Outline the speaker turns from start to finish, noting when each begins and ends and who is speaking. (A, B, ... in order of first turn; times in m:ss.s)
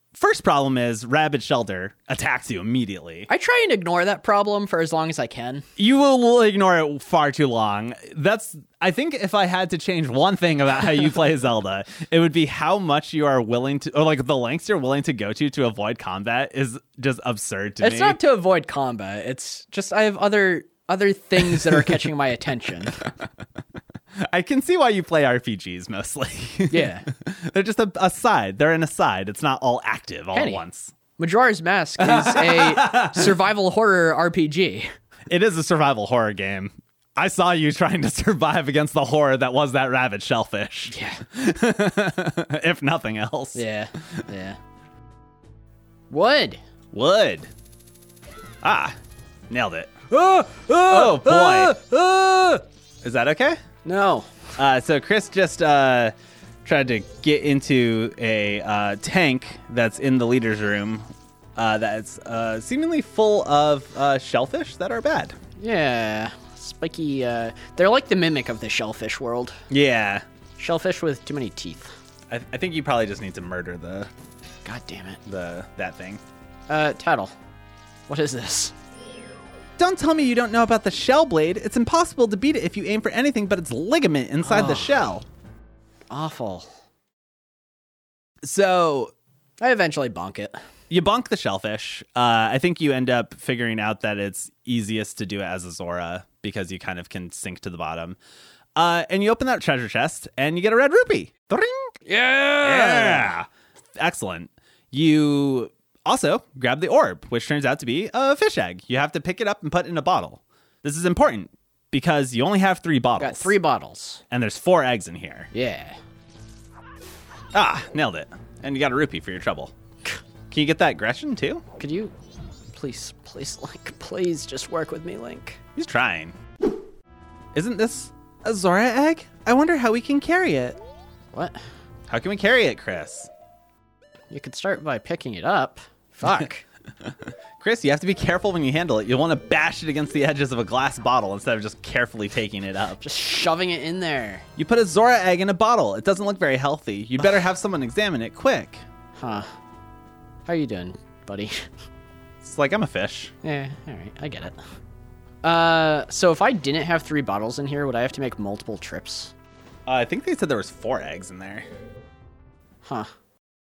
0:00.1-0:03.3 A
0:03.3-0:05.6 B
0:05.8-0:18.2 A
0:17.8-0:23.1 B
0:21.5-0:22.0 A
0:24.2-0:30.9 A
0:26.7-0:27.1 B
0:30.3-0:30.6 B
0:31.2-0:34.9 B
0:32.0-0:33.4 A
0:35.3-0:44.2 A
0:40.9-0:41.2 B
0:43.5-0:44.6 B
0:46.1-0:46.6 B
0:46.9-0:47.5 A
0:48.6-0:49.0 A
0:49.5-0:49.9 A
0:50.1-0:52.6 B
0:50.9-0:51.8 A
0:53.0-0:53.6 A
0:53.8-0:54.3 B
0:54.6-0:56.1 A
0:56.6-1:05.4 A
1:05.6-1:09.6 B
1:09.7-1:10.2 A
1:10.6-1:11.9 B
1:12.3-1:14.1 A
1:14.6-1:15.2 B
1:15.2-1:16.2 A
1:16.7-1:17.3 B
1:18.1-1:18.7 B
1:19.8-1:25.2 A
1:24.4-1:25.0 B
1:26.1-1:26.7 B
1:28.4-1:29.1 A
1:29.6-1:30.6 B
1:30.9-1:38.2 A
1:38.8-1:41.9 A
1:42.0-1:43.4 B
1:42.6-1:53.6 A
1:53.2-1:54.2 B
1:54.3-1:55.5 A
1:55.5-1:56.0 B
1:57.5-1:59.7 A
2:00.5-2:01.6 A
2:01.8-2:02.1 B
2:02.7-2:05.6 B
2:05.8-2:06.3 A
2:07.5-2:10.8 A
2:11.3-2:11.6 B
2:12.1-2:13.3 A
2:14.3-2:16.6 B
2:17.0-2:23.0 A
2:23.0-2:24.4 B
2:24.6-2:28.8 A
2:29.2-2:29.5 B
2:30.4-2:31.6 B
2:32.4-2:33.3 A
2:33.4-2:34.6 B
2:35.4-2:39.3 B
2:39.8-2:41.7 A